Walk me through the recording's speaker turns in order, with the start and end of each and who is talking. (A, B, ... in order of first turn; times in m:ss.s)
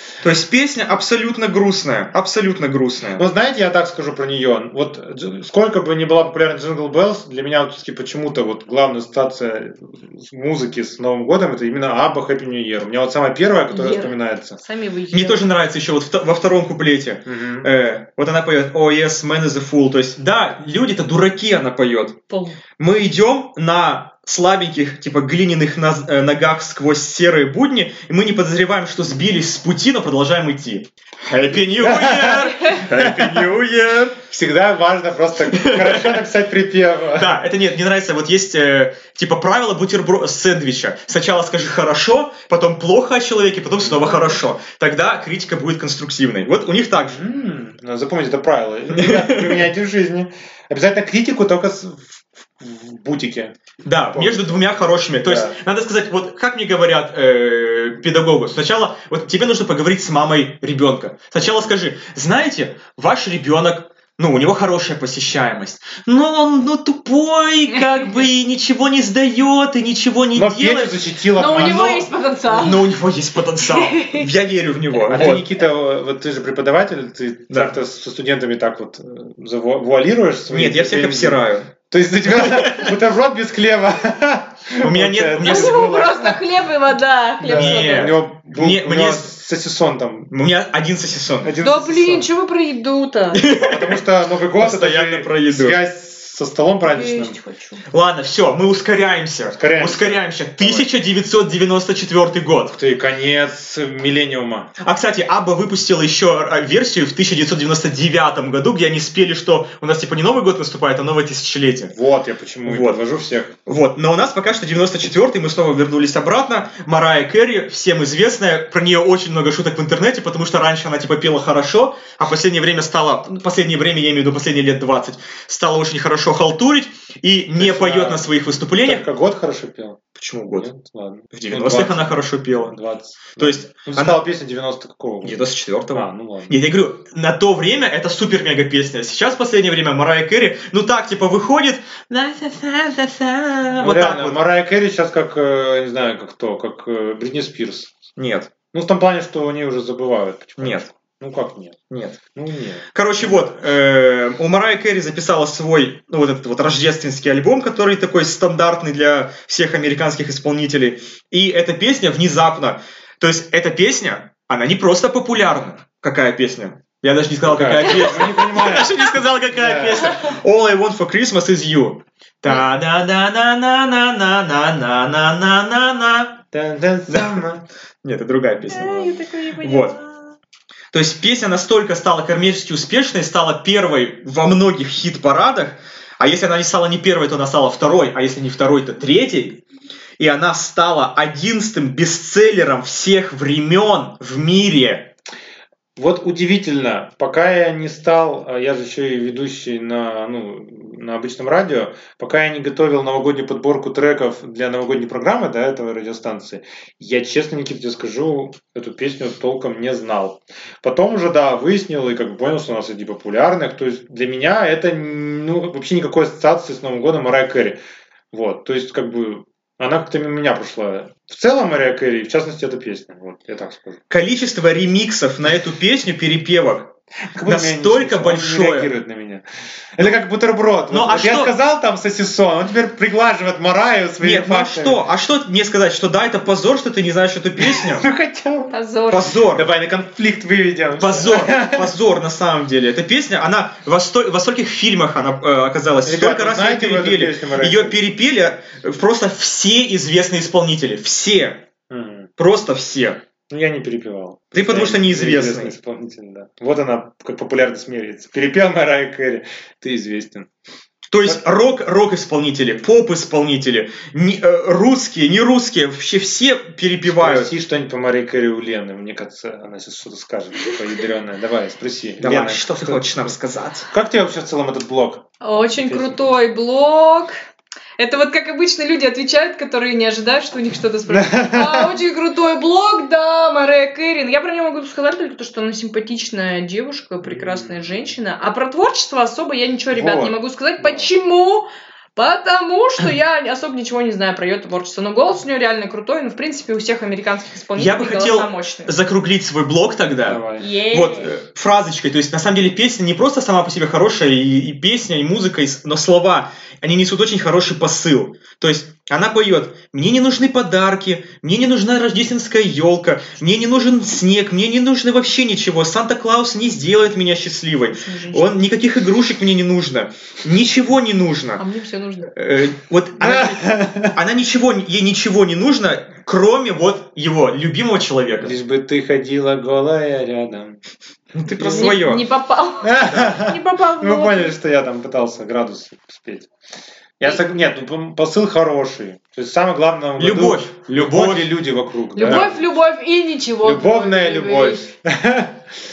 0:00.2-0:03.2 A
0:03.1-0:14.6 B
0:13.7-0:15.4 C
0:15.1-0:22.2 A
0:17.2-0:17.7 B
0:22.3-0:22.6 C
0:22.8-0:34.2 A
0:31.8-0:33.5 B
0:34.3-0:37.4 B
0:35.5-0:36.2 A
0:37.1-0:47.2 A
0:46.9-0:53.5 B
0:48.9-0:49.7 A
0:53.8-1:15.4 A
0:54.1-0:54.6 B
0:55.2-0:55.6 B
1:10.3-1:12.0 B
1:11.3-1:12.9 C
1:13.6-1:14.3 C
1:15.0-1:26.1 B
1:20.5-1:21.7 A
1:24.8-1:26.3 A
1:25.4-1:28.1 C
1:27.4-1:30.3 B
1:27.4-1:29.3 A
1:30.3-1:31.5 A
1:31.4-1:32.3 B
1:31.6-1:33.4 C
1:33.3-1:34.0 A
1:33.5-1:37.4 B
1:34.5-1:35.8 A
1:36.9-1:37.8 C
1:37.9-1:42.7 A
1:39.6-1:40.9 B
1:42.7-1:44.7 B
1:44.8-1:51.9 A
1:51.9-1:53.5 B
1:52.6-1:53.0 A
1:53.6-2:09.0 A
2:07.6-2:08.3 B
2:08.8-2:15.4 B
2:10.1-2:10.7 A
2:11.3-2:12.7 A
2:13.4-2:14.2 A
2:15.2-2:24.4 A
2:15.9-2:16.6 B
2:23.8-2:28.0 B
2:28.2-2:28.5 A
2:28.7-2:31.8 B
2:30.6-2:30.8 A
2:31.9-2:32.2 A
2:32.3-2:33.5 B
2:32.9-2:56.4 A
2:47.4-2:50.1 B
2:56.5-2:57.6 B
2:57.1-2:57.4 A
2:58.0-2:59.9 A
2:58.7-3:00.3 C
3:00.9-3:09.6 A
3:10.2-3:15.1 A
3:16.0-3:37.8 B
3:38.3-3:44.0 B
3:44.1-3:46.9 A
3:47.3-3:49.4 B
3:47.4-3:48.9 A
3:50.0-3:55.0 B
3:50.9-3:51.5 A
3:54.2-3:58.0 A
3:57.6-3:58.7 B
3:58.7-3:59.3 C
3:59.1-3:59.7 A
3:59.5-4:01.9 B
4:01.0-4:11.6 A
4:06.0-4:08.1 B
4:11.9-4:12.3 B
4:12.4-4:13.2 A
4:13.5-4:20.5 B
4:14.5-4:15.7 A
4:21.1-4:27.5 A
4:27.0-4:33.4 B
4:32.2-4:33.9 A
4:33.9-4:35.2 B
4:35.4-4:37.4 C
4:35.8-4:36.2 B
4:38.0-4:58.9 C
4:41.1-4:41.9 B
4:47.2-4:48.1 B
4:49.9-4:51.1 B
4:57.8-5:21.6 A
5:00.2-5:00.6 B
5:00.6-5:01.3 C
5:18.0-5:18.5 C
5:21.6-5:22.3 C
5:22.3-5:28.6 A
5:23.2-5:24.1 B
5:28.4-5:30.8 B
5:31.3-5:32.2 A
5:31.6-5:34.5 C
5:31.6-5:31.9 B
5:32.8-5:36.5 B
5:33.1-5:33.3 A
5:37.2-5:42.6 B
5:40.2-5:41.5 A
5:42.1-5:44.9 C
5:42.2-5:42.5 A
5:43.6-5:45.6 B